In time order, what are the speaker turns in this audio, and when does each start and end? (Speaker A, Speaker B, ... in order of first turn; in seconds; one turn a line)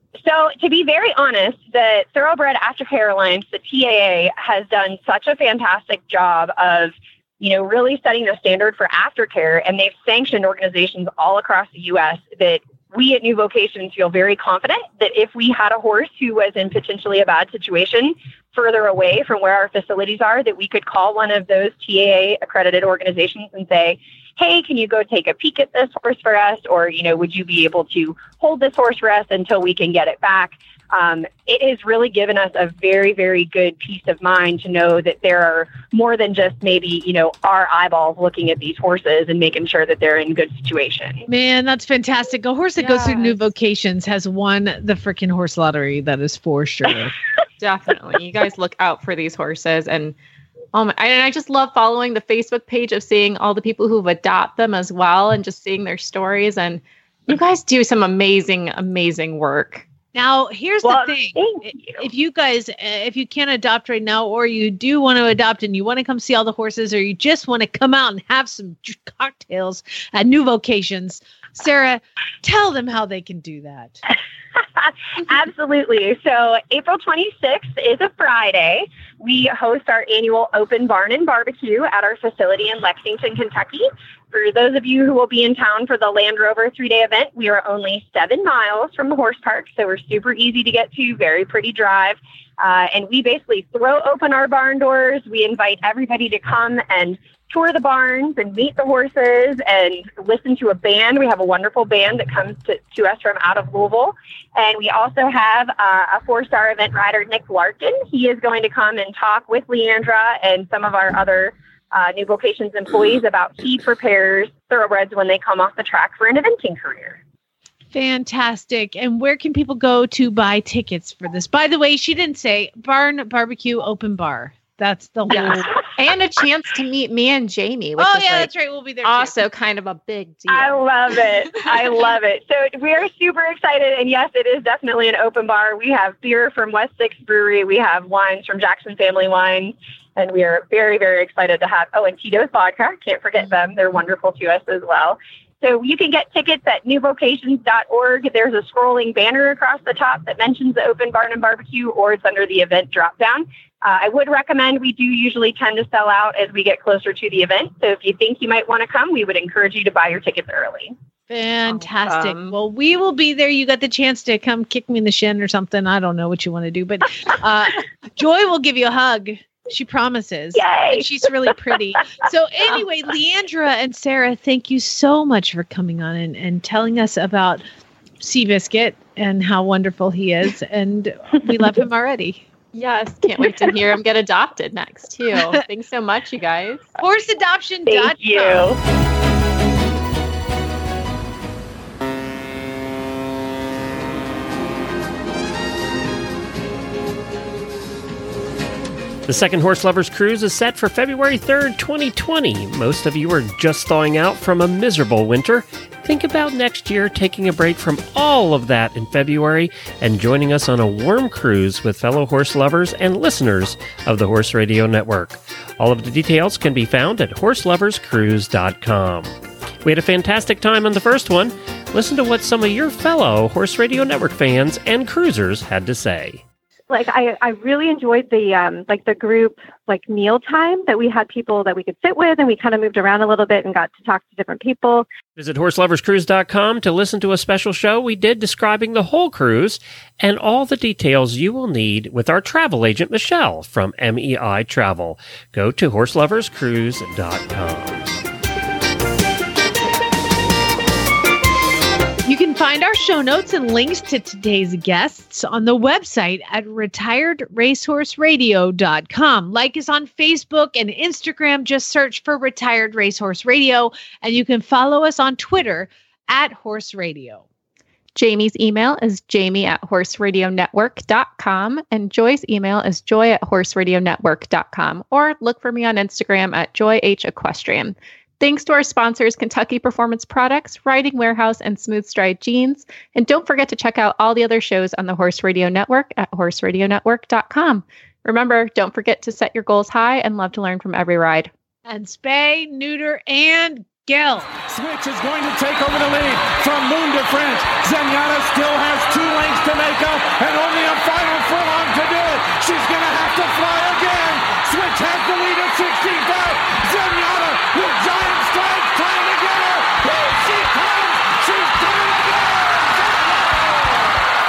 Speaker A: 0.2-41.2
Speaker B: 41.3-47.1
Speaker C: 42.9-43.4
Speaker C: 47.6-50.1
Speaker C: 50.7-59.9
Speaker B: 60.1-74.0
Speaker A: 60.8-62.0
Speaker A: 75.3-117.2
Speaker B: 117.9-125.7
Speaker C: 125.3-128.5
Speaker B: 128.0-129.4
Speaker C: 129.0-130.9
Speaker A: 130.5-160.9
Speaker B: 161.3-177.6
Speaker C: 161.7-162.5
Speaker A: 170.5-171.1
Speaker B: 178.2-182.4
Speaker C: 182.7-186.9
Speaker B: 187.0-188.7
Speaker D: 199.2-226.4
Speaker E: 226.9-235.1
Speaker D: 235.3-248.1
Speaker B: 252.2-267.4
Speaker C: 268.1-291.5
Speaker B: 291.9-294.5
Speaker F: 294.7-314.2